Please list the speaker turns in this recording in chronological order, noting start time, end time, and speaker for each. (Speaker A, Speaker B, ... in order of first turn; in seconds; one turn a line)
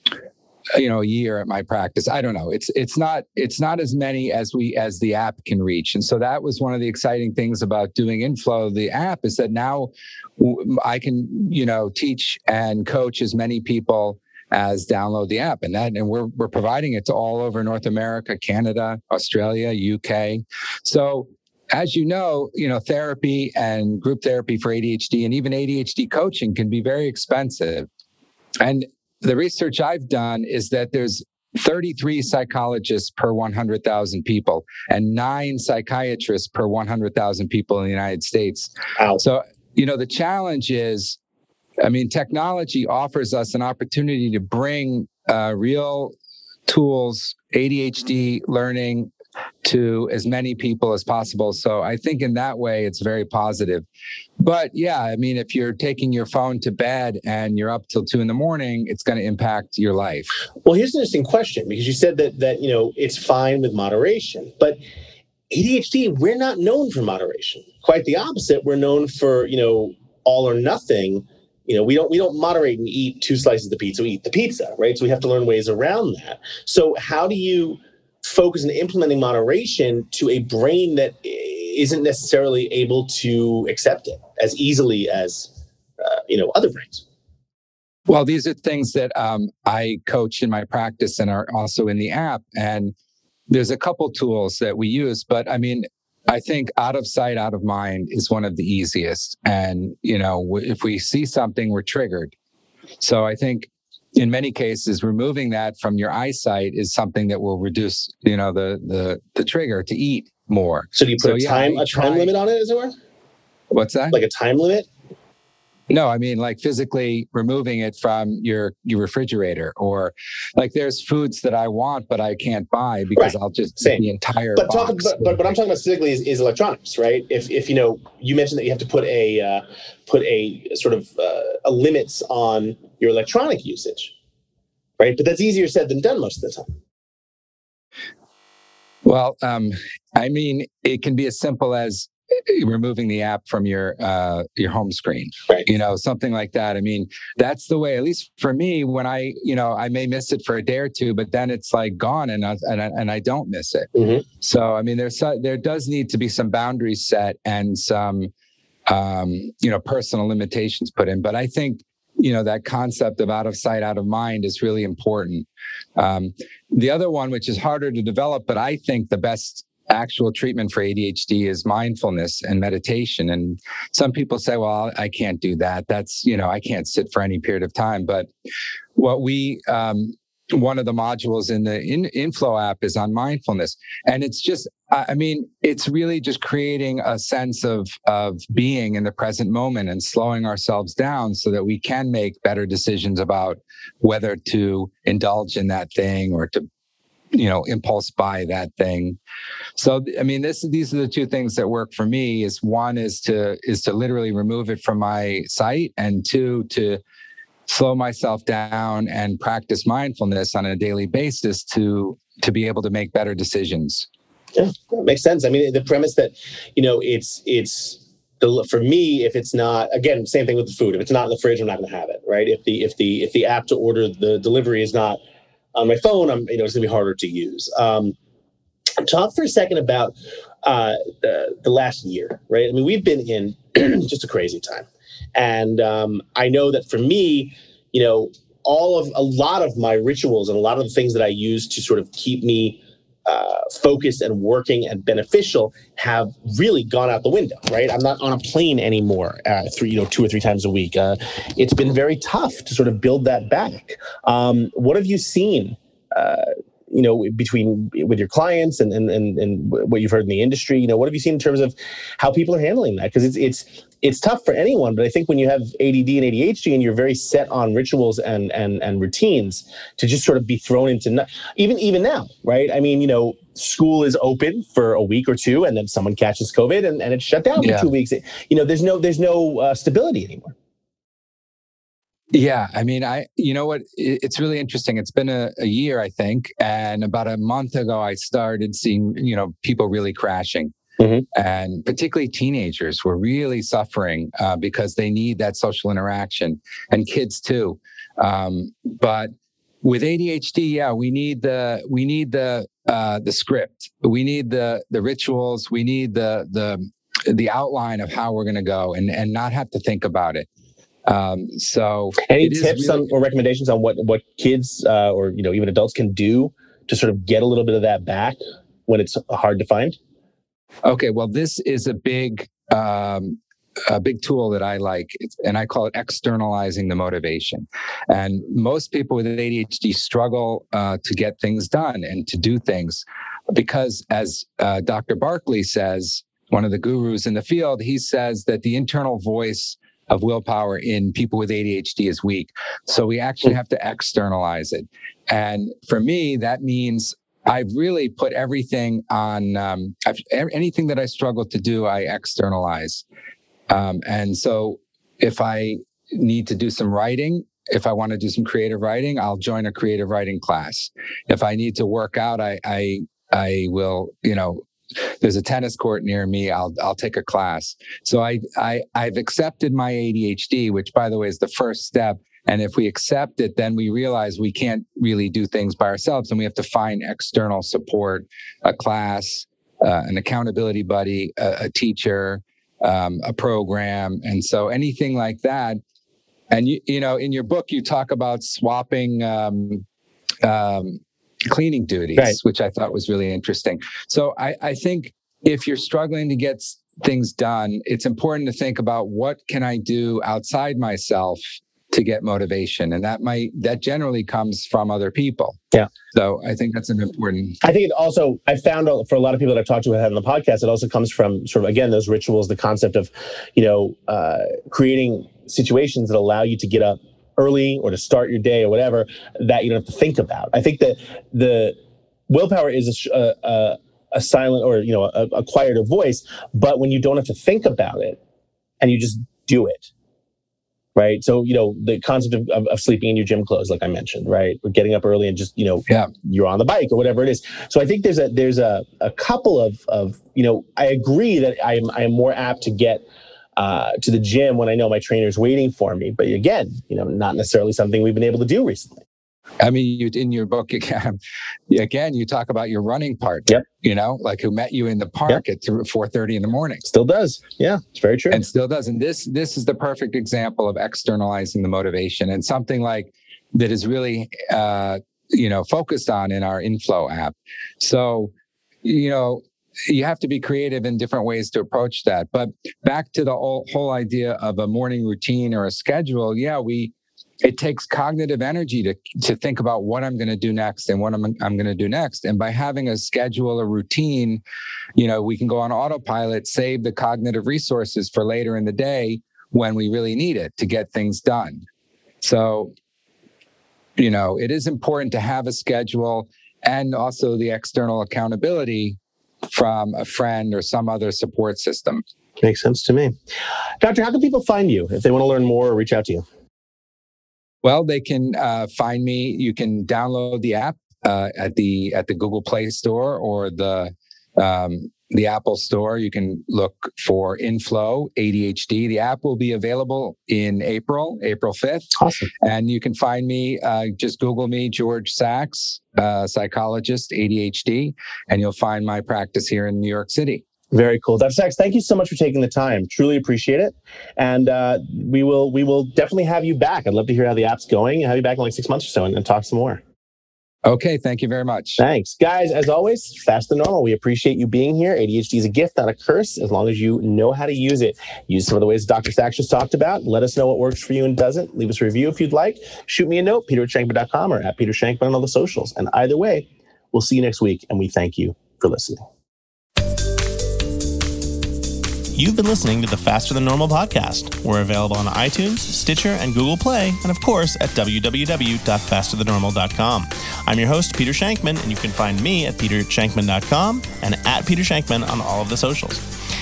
Speaker A: 0.8-27.9
Speaker A: 28.6-41.2
Speaker A: 41.8-46.1
Speaker A: 46.7-49.1
Speaker A: 49.6-53.9
Speaker A: 54.4-60.3
Speaker B: 60.6-64.8
Speaker B: 65.5-87.0
Speaker A: 88.1-92.9
Speaker A: 93.5-102.3
Speaker A: 103.0-112.3
Speaker B: 110.9-112.9
Speaker A: 113.7-114.2
Speaker B: 114.1-114.9
Speaker A: 115.9-125.5
Speaker B: 123.2-134.1
Speaker B: 135.0-136.7
Speaker A: 139.0-153.9
Speaker B: 154.0-154.2
Speaker A: 154.4-158.3
Speaker A: 158.9-178.3
Speaker A: 179.0-196.6
Speaker A: 197.3-199.2
Speaker A: 199.8-207.0
Speaker A: 207.7-214.1
Speaker B: 214.6-225.2
Speaker B: 225.8-228.1
Speaker B: 229.0-280.5
Speaker A: 277.6-277.9
Speaker A: 282.3-290.7
Speaker B: 291.0-291.2
Speaker A: 291.4-299.3
Speaker A: 299.8-310.5
Speaker A: 311.1-313.1
Speaker B: 312.3-320.0
Speaker A: 320.9-353.0
Speaker A: 353.7-385.8
Speaker A: 386.5-389.8
Speaker A: 390.4-405.6
Speaker A: 406.1-407.6
Speaker B: 407.6-421.8
Speaker B: 422.3-428.2
Speaker B: 428.8-429.9
Speaker B: 431.0-443.0
Speaker B: 443.6-449.0
Speaker A: 449.6-451.2
Speaker A: 451.7-456.8
Speaker B: 456.8-458.4
Speaker A: 458.3-468.3
Speaker A: 468.8-484.4
Speaker A: 485.0-491.6
Speaker A: 492.2-492.7
Speaker A: 494.0-499.0
Speaker A: 499.5-502.0
Speaker B: 502.4-503.2
Speaker B: 503.8-506.2
Speaker A: 507.6-521.9
Speaker B: 522.0-522.3
Speaker A: 522.4-530.4
Speaker B: 530.7-539.8
Speaker A: 540.6-541.8
Speaker B: 541.8-559.0
Speaker C: 562.1-576.0